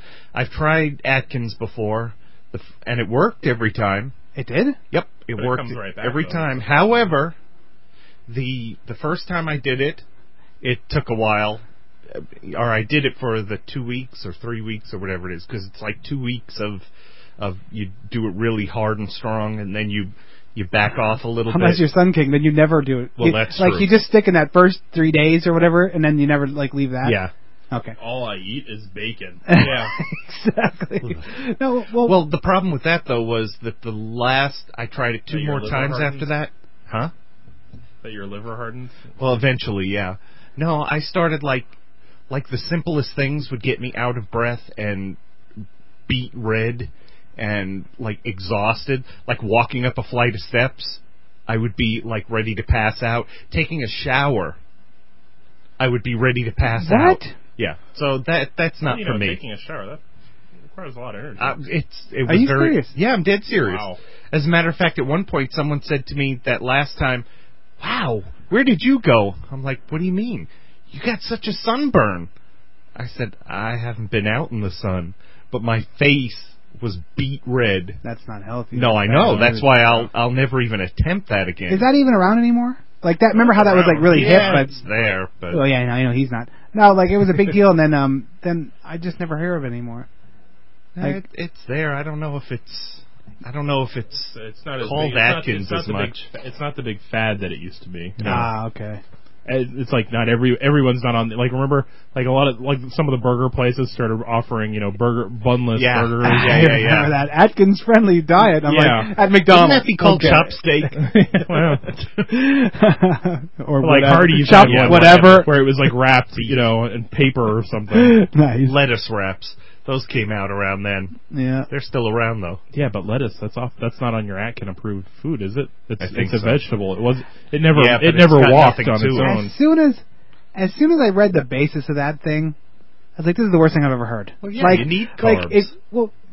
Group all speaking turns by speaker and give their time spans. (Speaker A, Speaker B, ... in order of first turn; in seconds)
Speaker A: 0.3-4.1, 4.9-7.3, 8.3-10.0, 10.6-16.8, 17.4-21.8, 23.2-23.9, 27.0-27.3, 31.0-31.3, 32.0-37.1, 39.2-41.7, 42.3-45.2, 46.1-54.6, 55.8-59.4, 61.4-67.2, 67.8-72.3, 72.9-78.0, 78.7-81.9, 83.5-85.6, 90.9-96.1, 98.2-98.5, 105.7-107.2, 109.5-112.0, 114.5-115.5, 116.3-116.7, 118.6-121.2, 121.7-122.6, 126.0-126.6, 127.7-129.3, 134.4-135.7
Speaker B: 4.3-4.8, 21.5-27.2, 29.5-32.2, 56.7-57.3, 62.2-62.9, 78.0-80.0, 81.7-84.8, 85.5-90.1, 98.2-99.0, 106.2-110.6, 112.2-115.5, 117.9-118.8, 121.3-121.7, 129.2-130.0, 130.5-132.6, 133.2-136.1
Speaker C: 5.3-7.1, 28.0-30.0, 35.3-36.3, 38.0-39.1, 58.8-60.0, 60.7-61.6, 63.5-64.0, 79.3-79.6, 83.8-84.7, 94.3-98.5, 99.5-106.7, 108.6-109.1, 110.9-111.9, 113.8-118.2, 122.7-129.5, 134.6-134.9